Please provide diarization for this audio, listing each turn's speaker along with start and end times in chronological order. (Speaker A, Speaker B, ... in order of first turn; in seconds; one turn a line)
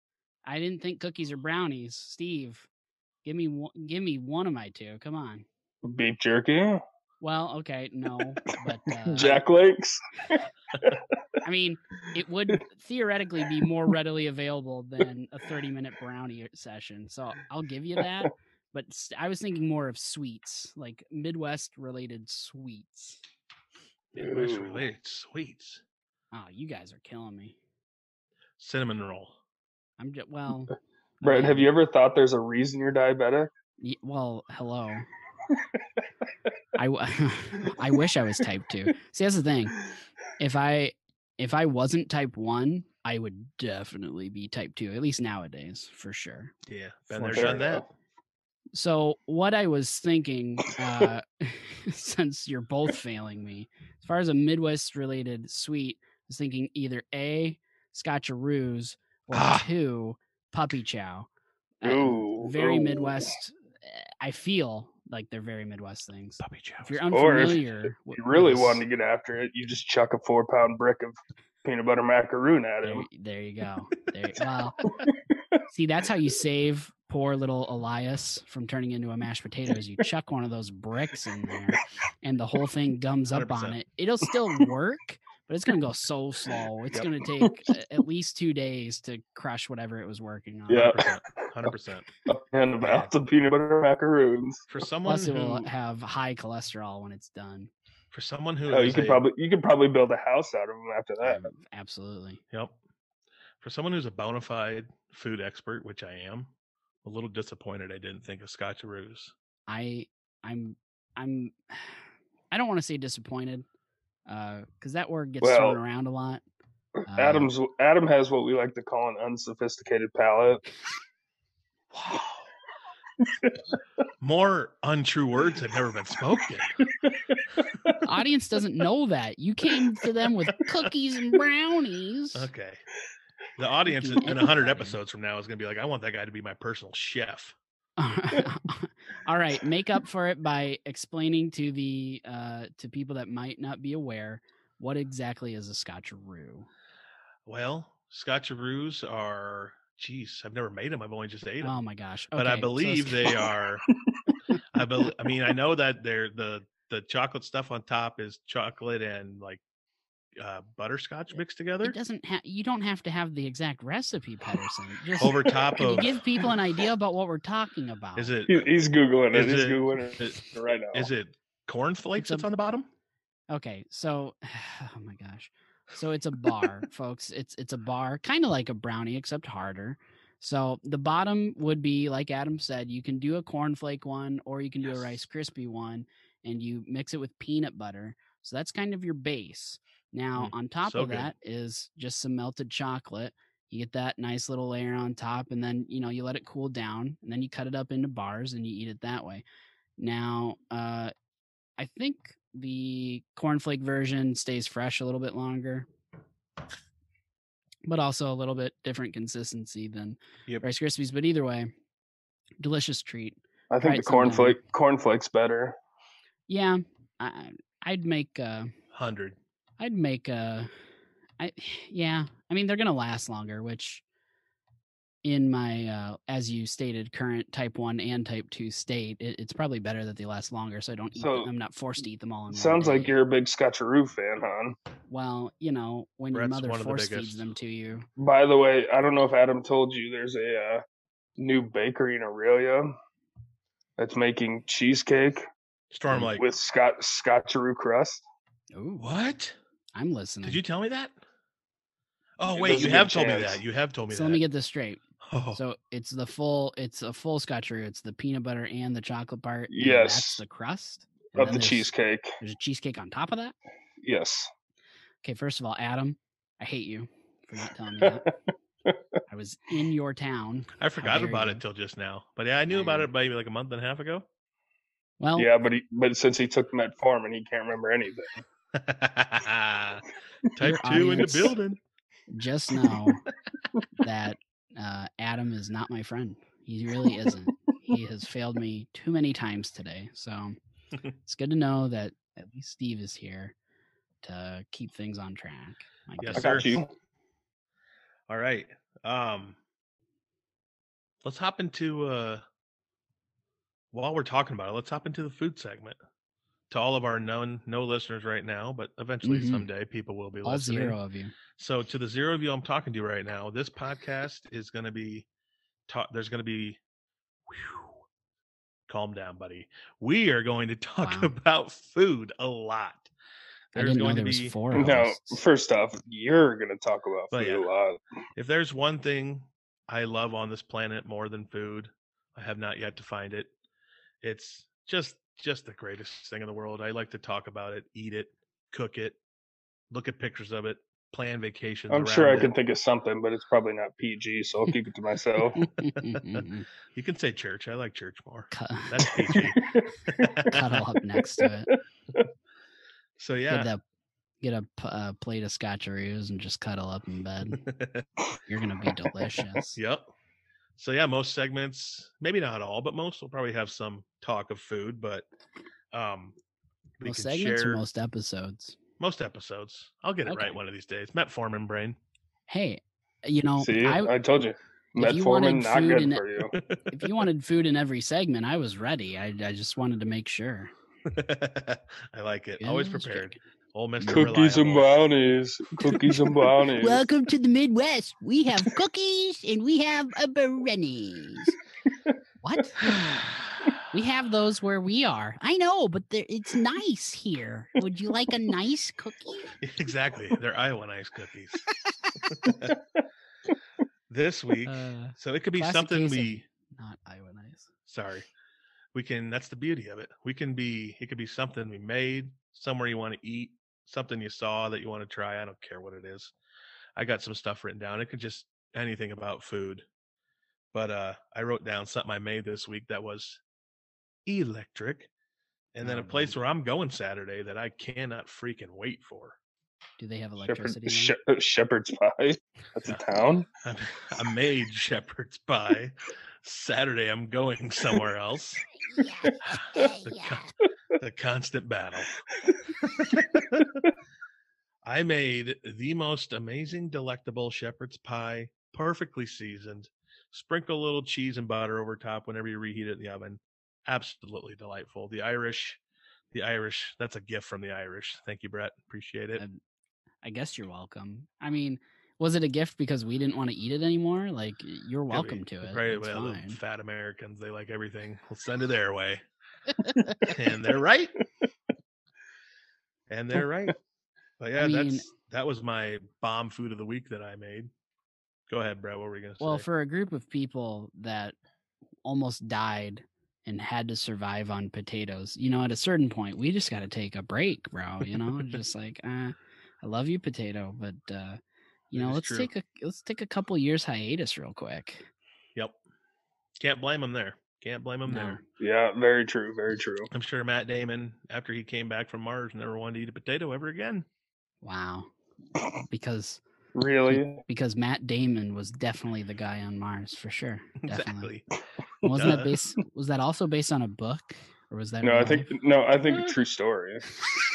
Speaker A: 0.5-2.7
Speaker A: 3.2-5.5
Speaker B: 5.8-6.8
Speaker A: 7.2-9.4
Speaker B: 9.1-11.0
Speaker A: 11.4-23.2
Speaker C: 24.1-25.8
Speaker B: 24.1-24.8
Speaker A: 26.3-27.6
Speaker C: 28.6-29.4
Speaker A: 30.0-31.7
Speaker B: 31.2-33.5
Speaker A: 33.8-35.1
Speaker A: 36.8-39.8
Speaker A: 40.4-46.5
Speaker C: 46.6-47.8
Speaker B: 47.1-47.9
Speaker A: 48.7-61.3
Speaker C: 59.3-59.7
Speaker A: 61.8-68.8
Speaker B: 61.8-63.3
Speaker C: 66.4-67.3
Speaker B: 67.1-73.0
Speaker A: 72.8-74.8
Speaker A: 75.7-91.0
Speaker C: 83.3-83.8
Speaker B: 90.7-91.4
Speaker C: 90.7-92.1
Speaker B: 92.3-94.7
Speaker C: 92.8-93.1
Speaker C: 94.7-95.7
Speaker A: 95.0-97.7
Speaker C: 98.1-99.2
Speaker B: 98.7-101.4
Speaker A: 101.2-102.4
Speaker C: 102.5-102.8
Speaker C: 103.6-106.5
Speaker C: 107.0-109.3
Speaker A: 109.7-112.0
Speaker A: 112.5-113.7
Speaker A: 114.3-116.4
Speaker B: 115.4-115.8
Speaker A: 117.1-117.5
Speaker B: 117.1-120.6
Speaker B: 123.2-123.5
Speaker C: 124.2-126.7
Speaker B: 127.0-128.0
Speaker A: 128.0-132.5
Speaker C: 132.3-132.8
Speaker C: 133.6-137.6
Speaker A: 133.9-135.0
Speaker A: 138.0-146.7
Speaker C: 147.4-151.8
Speaker A: 151.6-153.4
Speaker C: 152.3-153.8
Speaker B: 153.9-154.3
Speaker C: 154.7-159.6
Speaker C: 160.4-162.0
Speaker A: 161.8-168.3
Speaker C: 165.2-166.2
Speaker B: 165.4-166.0
Speaker C: 168.2-168.7
Speaker B: 168.5-171.1
Speaker C: 169.3-170.4
Speaker C: 170.9-172.9
Speaker A: 172.2-172.5
Speaker A: 173.5-199.4
Speaker C: 190.3-191.3
Speaker A: 200.0-201.1
Speaker A: 201.8-205.9
Speaker A: 207.8-211.7
Speaker A: 212.6-214.6
Speaker B: 213.7-215.8
Speaker A: 216.5-218.7
Speaker C: 218.9-219.4
Speaker A: 219.8-220.7
Speaker A: 221.4-224.0
Speaker A: 225.2-233.1
Speaker B: 231.2-231.5
Speaker B: 232.5-234.8
Speaker A: 235.1-238.1
Speaker C: 236.3-237.5
Speaker B: 238.2-240.8
Speaker B: 241.4-242.9
Speaker B: 244.0-245.5
Speaker C: 245.9-246.5
Speaker B: 246.1-248.2
Speaker A: 248.7-249.1
Speaker C: 249.0-249.6
Speaker A: 249.9-250.6
Speaker C: 250.4-251.2
Speaker C: 252.4-254.4
Speaker B: 252.5-253.6
Speaker A: 254.1-255.0
Speaker C: 255.2-255.6
Speaker A: 255.5-263.5
Speaker B: 259.7-260.4
Speaker B: 261.3-262.4
Speaker B: 264.0-264.5
Speaker A: 265.2-268.3
Speaker B: 268.0-268.3
Speaker A: 269.3-271.6
Speaker C: 270.8-274.3
Speaker A: 272.7-273.1
Speaker A: 275.2-275.5
Speaker B: 275.4-278.4
Speaker C: 278.7-281.8
Speaker A: 280.6-281.6
Speaker A: 282.3-283.2
Speaker A: 284.0-290.6
Speaker A: 291.2-293.5
Speaker A: 294.2-296.6
Speaker C: 296.2-296.8
Speaker B: 296.3-296.9
Speaker C: 298.3-299.6
Speaker C: 301.2-302.4
Speaker C: 303.9-305.9
Speaker C: 306.7-311.0
Speaker A: 309.2-309.7
Speaker A: 310.4-311.3
Speaker C: 311.6-315.3
Speaker C: 315.9-316.8
Speaker C: 317.5-318.0
Speaker C: 318.9-323.1
Speaker A: 321.0-321.3
Speaker C: 323.7-324.6
Speaker A: 323.7-325.4
Speaker B: 324.7-328.0
Speaker C: 327.3-327.6
Speaker C: 328.4-333.5
Speaker C: 334.2-339.2
Speaker C: 339.9-342.5
Speaker B: 341.9-345.6
Speaker A: 345.6-346.7
Speaker C: 346.0-350.8
Speaker A: 348.5-349.4
Speaker A: 350.5-351.7
Speaker C: 353.2-353.7
Speaker A: 353.5-353.8
Speaker A: 354.4-357.6
Speaker C: 357.5-358.1
Speaker A: 358.4-359.8
Speaker C: 359.8-360.1
Speaker C: 360.8-365.3
Speaker C: 365.9-366.4
Speaker C: 367.0-367.8
Speaker A: 367.0-368.8
Speaker C: 369.0-372.0
Speaker A: 370.2-370.6
Speaker A: 372.5-374.1
Speaker B: 373.6-376.6
Speaker A: 375.0-376.2
Speaker C: 376.5-377.2
Speaker A: 376.9-380.7
Speaker C: 381.1-385.0
Speaker A: 382.6-383.4
Speaker A: 384.0-384.3
Speaker B: 384.1-387.0
Speaker A: 386.7-391.5
Speaker A: 392.4-393.1
Speaker C: 393.0-393.3
Speaker A: 393.9-399.6
Speaker C: 399.6-401.7
Speaker C: 402.2-402.8
Speaker C: 404.1-406.4
Speaker A: 404.6-407.7
Speaker C: 407.9-408.3
Speaker C: 408.9-416.3
Speaker C: 416.9-419.9
Speaker C: 420.7-423.4
Speaker C: 424.2-425.1
Speaker C: 425.7-429.4
Speaker A: 425.8-426.4
Speaker A: 430.0-431.1
Speaker B: 430.4-433.5
Speaker C: 433.6-438.6
Speaker A: 439.0-440.3
Speaker C: 439.4-442.2
Speaker C: 442.8-443.8
Speaker C: 444.8-455.8
Speaker C: 456.3-459.4
Speaker A: 460.2-466.6
Speaker C: 465.1-469.2
Speaker C: 470.3-471.1
Speaker C: 473.1-473.8
Speaker C: 474.4-477.7
Speaker A: 474.6-475.1
Speaker C: 478.5-479.6
Speaker A: 479.4-481.4
Speaker A: 482.0-491.4
Speaker C: 488.3-488.6
Speaker A: 491.9-495.1
Speaker C: 491.9-492.5
Speaker C: 496.6-498.4
Speaker A: 498.1-498.4
Speaker B: 498.6-500.1
Speaker C: 500.1-504.1
Speaker A: 504.6-505.1
Speaker A: 505.8-506.4
Speaker B: 506.7-507.4
Speaker A: 507.1-511.3
Speaker C: 510.8-511.5
Speaker A: 512.0-515.5
Speaker C: 512.1-512.5
Speaker B: 515.0-517.1